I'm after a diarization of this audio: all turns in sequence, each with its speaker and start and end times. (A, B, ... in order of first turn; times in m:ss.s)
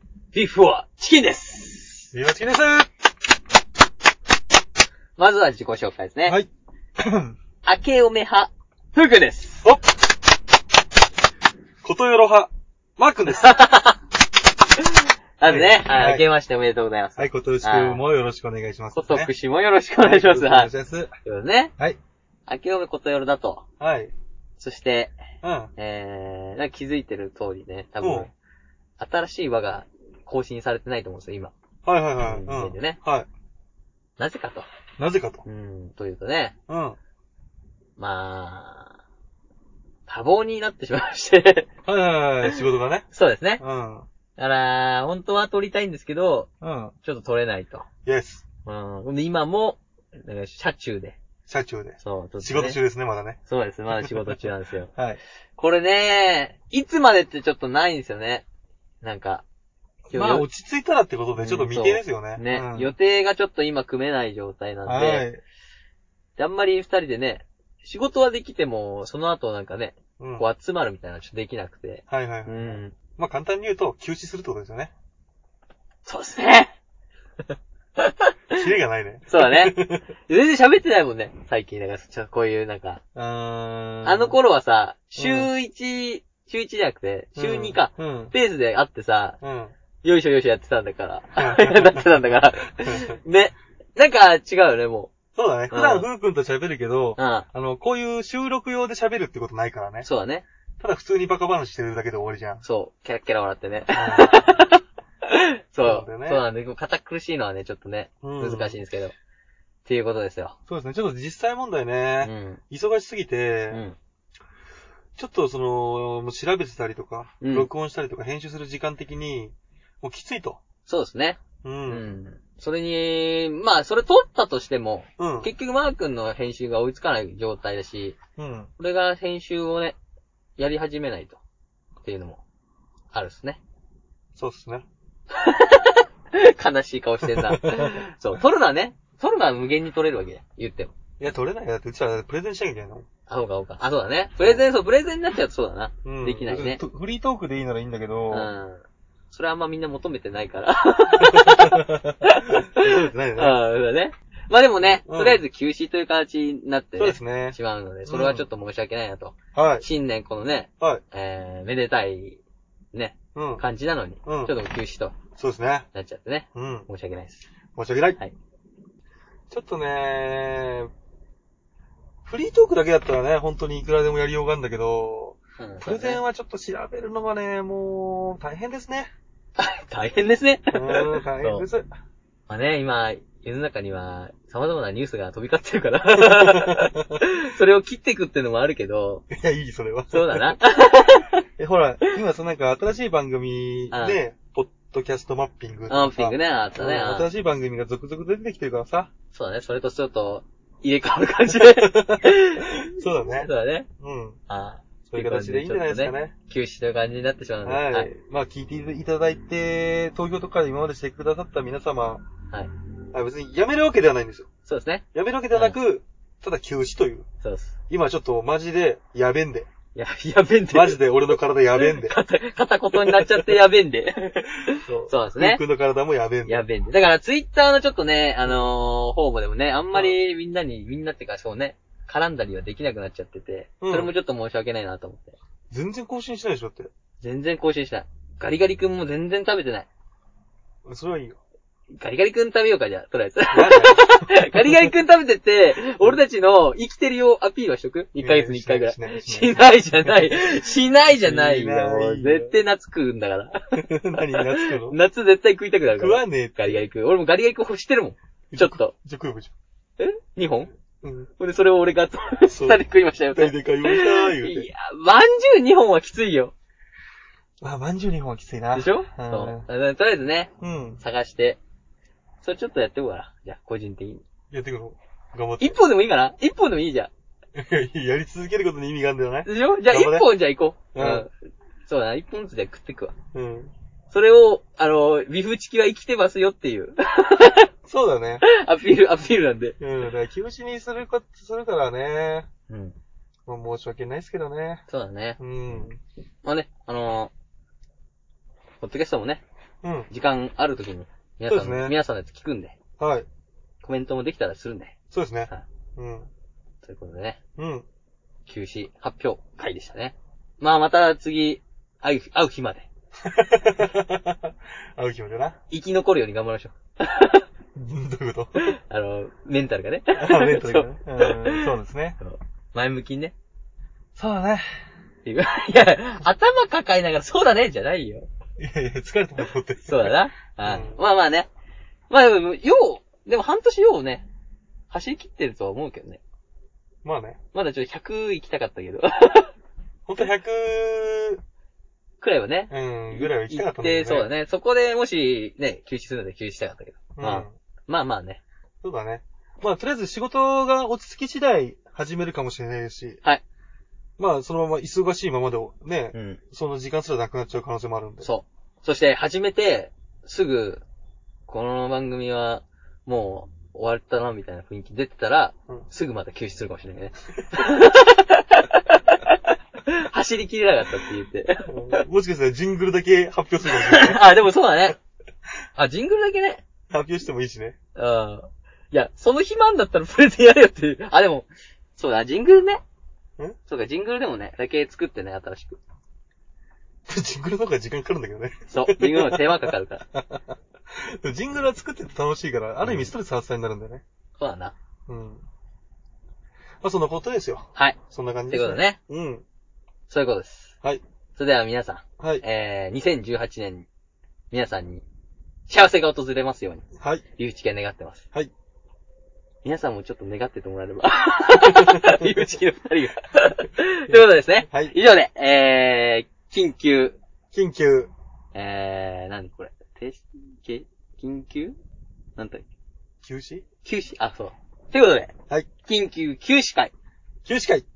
0:00.3-0:02.1 A
0:02.1-0:02.9 B
0:05.2-0:06.4 A
0:07.0-0:07.3 B
0:07.6-0:09.7 A
0:11.8-0:13.6 B
0:13.3-0:14.0 A
0:14.8-0:18.0 A
0:15.4-0:16.3 B
0:17.2-0:19.3 B
0:18.9-0:20.7 A
0:20.0-0:21.1 B
0:21.2-0:21.7 A
0:22.5-0:23.6 A
0:23.8-0:24.1 B
0:24.6-0:25.2 A
0:25.4-0:25.7 B
0:25.8-0:28.3 A
0:28.0-0:28.3 B
0:29.0-0:31.5 A
0:31.8-0:33.3 B
0:32.2-0:33.0 A
0:34.2-0:34.7 A
0:35.0-0:35.4 B
0:35.4-0:36.6 A
0:36.7-0:37.0 B
0:38.0-0:39.0 A
0:40.1-0:41.7 A
0:41.9-0:43.1 B
0:43.1-0:43.6 A
0:43.6-0:44.1 B
0:44.4-0:46.5 A
0:46.6-0:46.9 B
0:47.0-0:47.9 A
0:48.1-0:48.4 B
0:48.7-0:51.2 A
0:51.5-0:53.4 B
0:52.0-0:52.8 A
0:53.5-0:54.9 A
0:54.0-0:54.4 B
0:55.6-0:58.4 A
0:59.0-0:59.4 A
1:00.1-1:02.9 B
1:00.1-1:00.4 A
1:01.4-1:05.3 A
1:04.9-1:05.4 B
1:06.4-1:13.0 A
1:10.2-1:10.4 B
1:12.1-1:14.9 B
1:16.1-1:16.7 A
1:18.0-1:18.6 A
1:18.5-1:20.1 B
1:19.3-1:19.8 A
1:20.3-1:23.0 A
1:23.1-1:24.4 B
1:24.0-1:29.4 A
1:25.2-1:25.5 B
1:27.4-1:28.3 B
1:29.4-1:29.7 B
1:30.0-1:35.1 A
1:31.4-1:32.0 B
1:32.8-1:33.2 B
1:35.3-1:40.1 B
1:35.7-1:36.1 A
1:37.2-1:37.5 A
1:40.0-1:40.4 A
1:40.8-1:42.6 B
1:42.6-1:49.1 A
1:43.9-1:44.5 B
1:45.8-1:46.4 B
1:48.2-1:48.8 B
1:49.8-1:50.6 A
1:50.7-1:53.8 B
1:52.2-1:52.6 A
1:53.7-1:54.0 A
1:55.2-2:00.6 B
1:57.4-1:57.7 A
2:00.8-2:08.2 A
2:01.6-2:02.1 B
2:05.2-2:05.5 B
2:08.4-2:08.7 B
2:08.8-2:10.0 A
2:10.6-2:11.4 A
2:12.0-2:12.4 A
2:13.1-2:13.6 A
2:14.4-2:14.8 B
2:15.3-2:20.9 A
2:17.2-2:18.0 B
2:21.2-2:23.1 B
2:23.3-2:26.8 A
2:26.0-2:28.5 B
2:28.3-2:42.4 A
2:31.2-2:33.6 B
2:34.9-2:35.4 B
2:37.0-2:38.5 B
2:39.5-2:39.8 B
2:42.9-2:45.2 A
2:43.3-2:43.6 B
2:44.2-2:44.5 B
2:45.4-2:45.9 B
2:45.9-2:47.4 A
2:46.5-2:46.9 B
2:47.8-2:48.2 B
2:49.5-2:50.9 B
2:52.2-2:59.1 B
2:55.6-2:56.2 A
2:59.6-3:01.7 A
3:00.7-3:01.9 B
3:02.5-3:09.2 A
3:06.1-3:07.2 B
3:09.3-3:10.6 B
3:10.1-3:11.4 A
3:11.6-3:19.1 B
3:13.9-3:14.2 A
3:15.9-3:17.3 A
3:19.3-3:23.9 A
3:21.5-3:24.4 B
3:24.5-3:28.1 A
3:25.1-3:26.3 B
3:27.6-3:32.2 B
3:33.1-3:34.5 B
3:34.7-3:35.8 A
3:35.1-3:37.3 B
3:37.4-3:37.8 A
3:37.9-3:39.7 B
3:39.9-3:41.1 A
3:40.7-3:42.2 B
3:41.7-3:45.6 A
3:42.9-3:43.6 B
3:44.8-3:46.7 B
3:46.5-3:55.4 A
3:48.4-3:48.7 B
3:49.9-3:50.2 B
3:53.8-3:54.1 B
3:55.7-3:56.9 B
3:57.2-3:59.9 A
4:00.8-4:01.4 B
4:01.9-4:13.6 A
4:03.5-4:04.7 B
4:08.2-4:12.6 B
4:13.8-4:15.0 B
4:14.2-4:18.9 A
4:16.0-4:16.8 B
4:18.5-4:19.5 B
4:20.0-4:20.7 A
4:21.0-4:21.3 B
4:21.4-4:26.5 A
4:22.5-4:24.7 B
4:27.6-4:29.6 B
4:28.7-4:31.6 A
4:30.6-4:31.0 B
4:32.4-4:34.2 A
4:34.5-4:35.8 B
4:35.6-4:37.1 A
4:37.5-4:40.3 B
4:39.5-4:41.3 A
4:40.9-4:41.2 B
4:41.9-4:43.1 A
4:43.3-4:43.7 B
4:44.1-4:47.7 A
4:47.8-4:48.4 B
4:48.4-4:49.8 A
4:49.8-4:52.5 B
4:52.7-4:53.0 A
4:53.5-4:54.8 B
4:54.9-4:55.4 A
4:55.4-4:56.0 B
4:56.4-4:57.3 A
4:58.8-4:59.4 A
4:59.8-5:00.1 B
5:00.1-5:02.8 A
5:01.5-5:02.0 B
5:03.0-5:03.3 B
5:03.8-5:05.0 A
5:05.1-5:06.3 B
5:06.8-5:07.4 A
5:07.6-5:07.8 B
5:08.5-5:12.9 A
5:13.2-5:15.6 B
5:15.7-5:17.4 A
5:17.8-5:18.8 B
5:18.6-5:23.3 A
5:20.1-5:22.2 B
5:24.1-5:24.8 B
5:25.2-5:28.3 A
5:28.6-5:31.0 B
5:29.8-5:31.5 A
5:32.1-5:34.3 A
5:34.9-5:36.2 A
5:37.0-5:37.4 B
5:37.5-5:39.5 A
5:40.1-5:41.4 B
5:42.2-5:48.4 A
5:42.7-5:44.3 B
5:47.2-5:47.6 B
5:48.8-5:53.2 B
5:54.2-5:58.3 B
5:56.1-5:56.4 A
5:58.2-6:00.8 A
6:01.5-6:12.0 A
6:11.6-6:14.2 B
6:13.7-6:15.0 A
6:15.8-6:16.6 A
6:16.9-6:17.8 B
6:18.0-6:22.8 A
6:23.7-6:25.8 A
6:27.1-6:34.0 B
6:28.7-6:30.0 A
6:32.8-6:33.1 A
6:34.4-6:34.7 A
6:35.1-6:35.4 B
6:36.8-6:39.4 B
6:37.8-6:39.0 A
6:40.1-6:40.7 A
6:41.4-6:43.9 A
6:42.2-6:42.4 B
6:44.5-6:45.0 A
6:45.7-6:46.8 A
6:47.4-6:48.2 A
6:49.6-6:57.2 A
6:51.7-6:52.2 B
6:54.1-6:55.0 B
6:57.5-6:58.1 B
6:58.5-7:01.8 A
7:02.4-7:02.6 A
7:03.2-7:03.6 B
7:03.8-7:05.3 A
7:05.8-7:06.9 A
7:07.5-7:07.8 B